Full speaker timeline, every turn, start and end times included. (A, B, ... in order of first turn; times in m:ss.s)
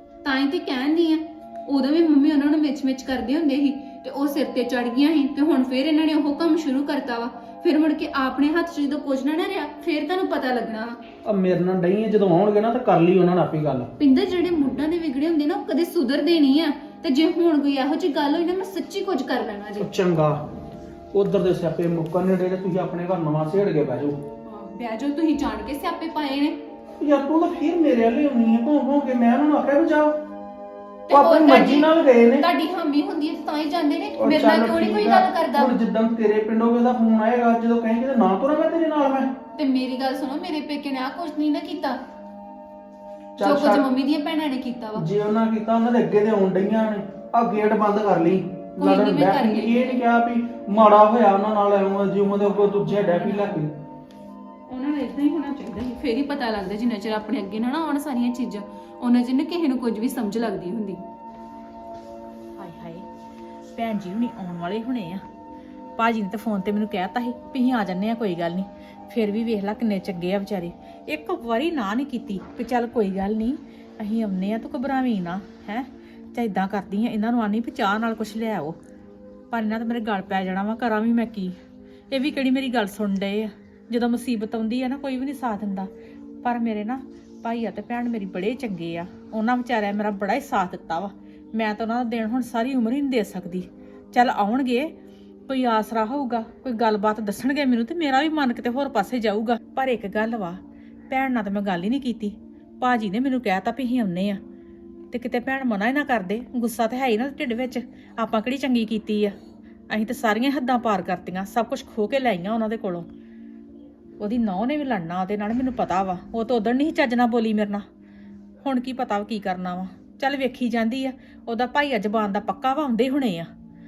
0:00.2-0:11.0 A
0:11.2-0:13.9 B
0:14.0-0:19.9 A
0:19.8-0:20.4 B
0:21.1-0:24.2 B
0:24.4-0:26.6 A
0:27.0-0:30.2 B
0:31.1-0:35.8 A
0:31.1-0:32.5 B
0:34.1-0:39.4 B
0:39.6-0:42.0 A
0:43.4-0:43.9 B
0:43.4-0:45.0 A
0:45.0-0:53.7 B
0:48.8-0:49.9 A
0:52.4-0:53.6 A
0:54.7-1:01.0 A
1:02.6-1:03.0 C
1:03.8-1:05.2 C
1:06.0-1:18.8 C
1:19.5-1:21.5 C
1:22.1-1:25.9 C
1:26.4-1:34.9 C
1:35.5-1:40.6 C
1:41.1-1:44.4 C
1:45.1-1:49.4 C
1:49.9-1:53.1 C
1:54.2-1:57.8 C
1:58.6-2:03.5 C